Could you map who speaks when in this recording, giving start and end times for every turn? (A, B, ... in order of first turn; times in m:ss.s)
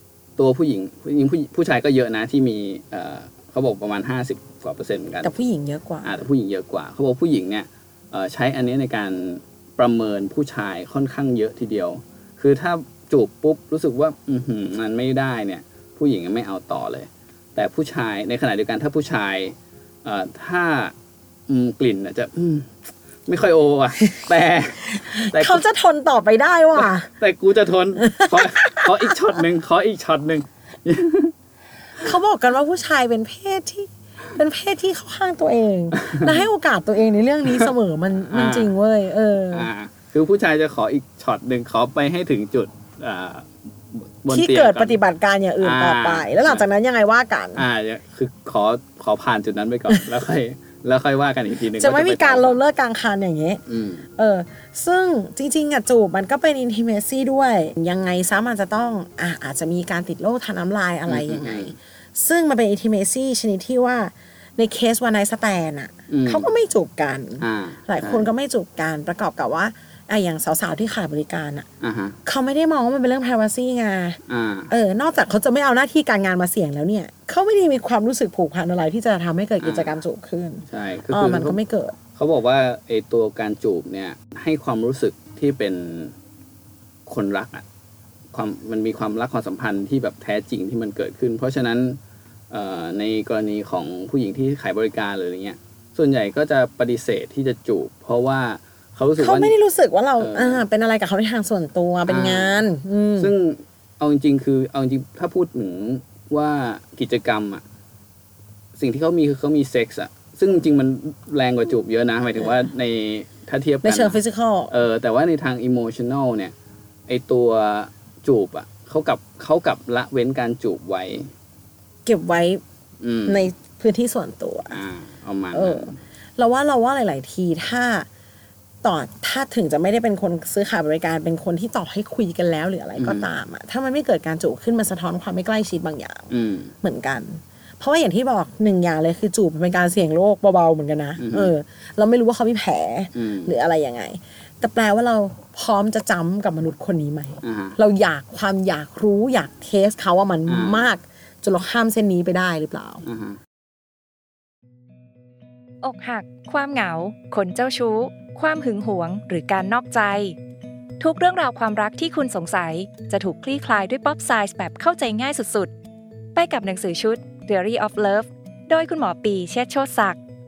0:00.4-0:05.3 A
0:05.2-0:06.1 B
0:06.0-0:20.9 A
0:21.5-0:22.7 A
0:23.3-0:25.7 A
0:24.9-0:27.1 B
0:26.7-0:31.3 A
0:28.0-0:29.2 B
0:32.0-0:39.7 B
0:37.5-0:38.8 A
0:39.5-0:45.0 A
0:44.3-0:47.7 B
0:45.6-0:46.7 A
0:47.6-0:52.6 A
0:51.7-0:53.6 B
0:53.7-0:54.1 A
0:54.2-1:11.7 B
1:01.1-1:01.8 A
1:06.1-1:06.5 A
1:07.4-1:08.3 A
1:11.8-1:12.2 A
1:12.3-1:22.0 B
1:14.3-1:14.7 A
1:19.6-1:20.0 A
1:20.7-1:21.6 A
1:22.2-1:26.1 A
1:27.1-1:27.6 A
1:28.3-1:32.0 A
1:32.5-1:39.6 A
1:39.2-1:43.3 B
1:40.2-1:40.6 A
1:42.1-1:42.7 A
1:43.2-1:47.6 A
1:48.8-1:54.2 A
1:53.8-1:54.8 B
1:54.7-1:56.5 A
1:57.1-2:01.3 A
2:02.0-2:02.6 B
2:03.0-2:03.5 A
2:03.3-2:04.8 B
2:04.7-2:06.0 A
2:05.5-2:08.1 B
2:08.8-2:16.3 B
2:13.0-2:13.3 A
2:16.3-2:16.7 A
2:16.8-2:33.0 B
2:21.2-2:21.5 A
2:23.1-2:23.6 A
2:27.4-2:27.8 A
2:30.5-2:30.9 A
2:33.0-2:33.4 A
2:35.8-2:40.4 C
2:41.0-2:45.7 C
2:46.4-2:50.2 C